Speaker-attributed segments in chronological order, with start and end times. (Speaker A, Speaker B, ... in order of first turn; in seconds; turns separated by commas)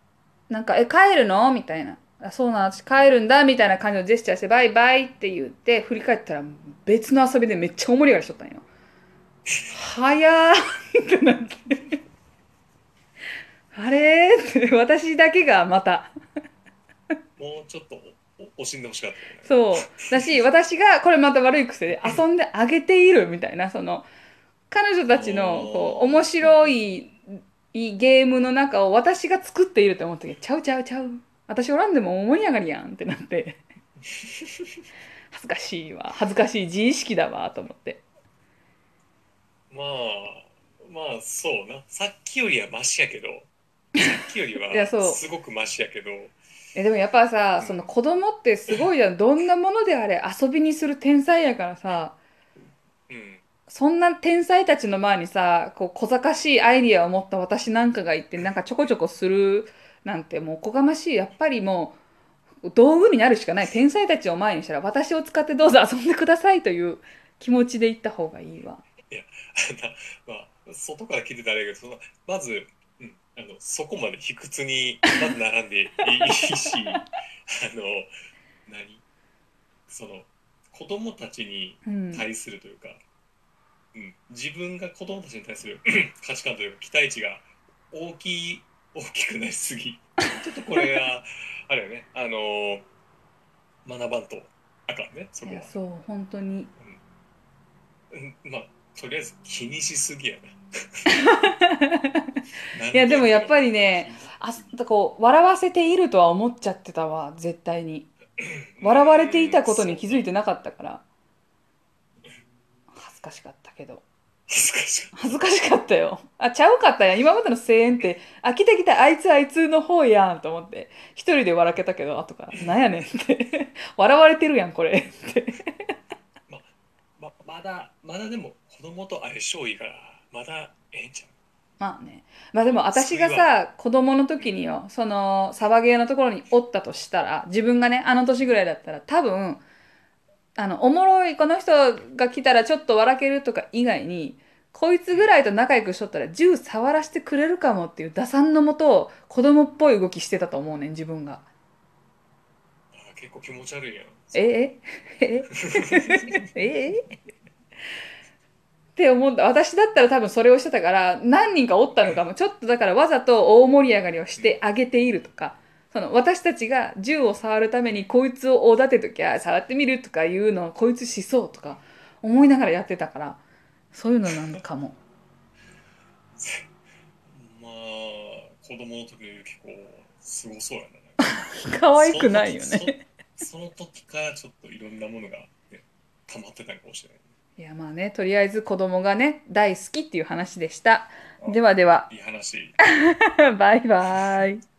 Speaker A: 0.5-8.6, Speaker A: 9.7-12.0, Speaker A: 13.7-16.1, Speaker B: 17.4-20.1, Speaker A: 19.4-24.1, Speaker A: 24.7-33.6, Speaker B: 25.1-26.8, Speaker B: 34.2-34.7, Speaker A: 35.3-38.0, Speaker B: 39.7-46.4, Speaker A: 44.7-45.2, Speaker A: 46.8-52.2, Speaker B: 53.1-53.4, Speaker A: 53.7-62.0, Speaker A: 62.6-68.8, Speaker B: 69.1-78.1, Speaker B: 78.7-79.0, Speaker B: 79.9-83.0, Speaker A: 81.8-82.3, Speaker B: 83.9-92.9, Speaker B: 93.8-95.8, Speaker A: 95.5-96.7, Speaker B: 98.1-101.1, Speaker A: 101.2-102.4, Speaker B: 102.7-104.4, Speaker A: 102.9-108.1, Speaker B: 108.4-110.3, Speaker A: 108.8-111.0, Speaker A: 112.9-114.0, Speaker B: 114.5-115.4, Speaker A: 115.1-125.9, Speaker B: 126.5-131.3, Speaker A: 131.8-139.6, Speaker B: 132.9-133.5, Speaker A: 140.6-151.4, Speaker B: 152.9-154.5, Speaker A: 154.3-157.1, Speaker B: 155.5-156.4, Speaker A: 159.0-173.4, Speaker A: 173.9-175.0, Speaker B: 176.4-176.7, Speaker B: 177.3-181.4, Speaker A: 181.2-183.0, Speaker B: 181.9-187.2, Speaker A: 187.6-192.1, Speaker B: 191.4-192.8, Speaker A: 192.8-194.6